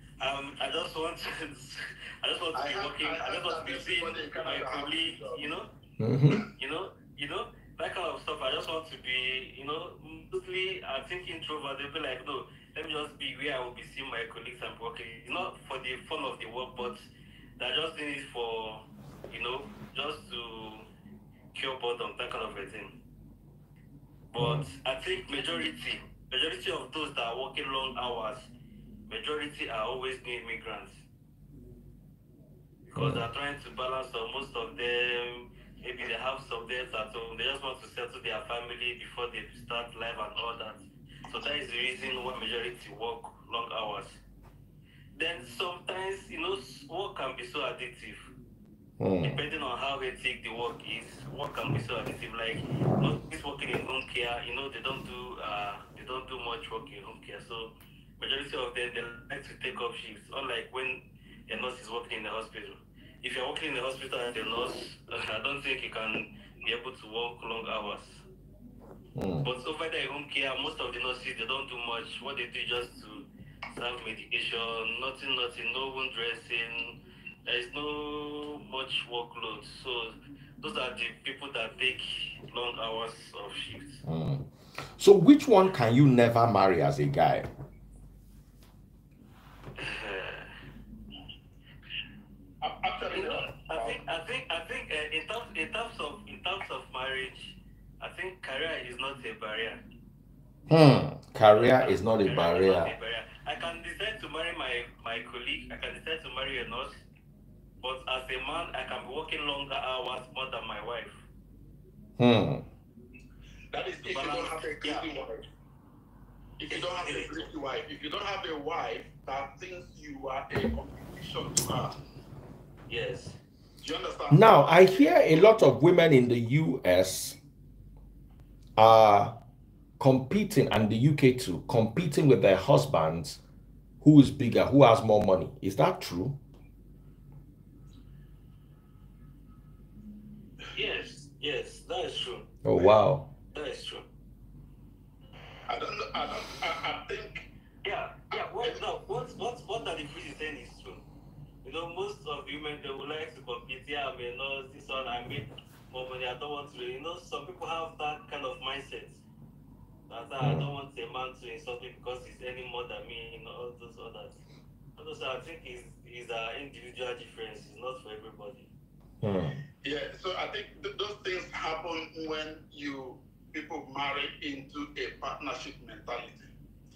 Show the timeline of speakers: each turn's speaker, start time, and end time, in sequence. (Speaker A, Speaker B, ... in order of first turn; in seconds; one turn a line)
Speaker A: 0.2-5.7
Speaker B: 2.5-5.5
Speaker C: 6.0-6.4
Speaker A: 6.6-17.0
Speaker A: 17.6-20.9
Speaker A: 21.5-23.0
Speaker A: 24.3-28.5
Speaker C: 24.4-24.7
Speaker A: 29.1-31.0
Speaker A: 32.9-44.2
Speaker C: 33.0-33.2
Speaker A: 45.1-48.3
Speaker C: 49.0-49.4
Speaker A: 49.2-68.2
Speaker C: 69.1-69.5
Speaker A: 69.4-84.0
Speaker C: 84.0-87.5
Speaker A: 89.8-90.5
Speaker B: 92.6-94.0
Speaker A: 93.1-99.8
Speaker C: 100.7-102.9
Speaker A: 101.5-107.0
Speaker A: 107.8-111.2
Speaker C: 112.2-112.6
Speaker B: 113.7-115.4
Speaker A: 114.0-115.1
Speaker B: 116.6-122.0
Speaker A: 116.7-117.5
Speaker A: 122.9-123.3
Speaker B: 123.8-125.3
Speaker C: 124.3-127.4
Speaker C: 128.8-129.3
Speaker C: 130.0-133.4
Speaker C: 134.0-136.4
Speaker A: 140.7-142.5
Speaker C: 142.6-143.3
Speaker A: 143.4-144.0
Speaker B: 145.7-147.5
Speaker A: 147.8-151.0
Speaker B: 148.4-148.8
Speaker A: 151.6-159.2
Speaker A: 160.1-164.4
Speaker C: 160.4-160.7
Speaker A: 165.0-168.7
Speaker C: 169.2-169.6
Speaker B: 169.8-176.5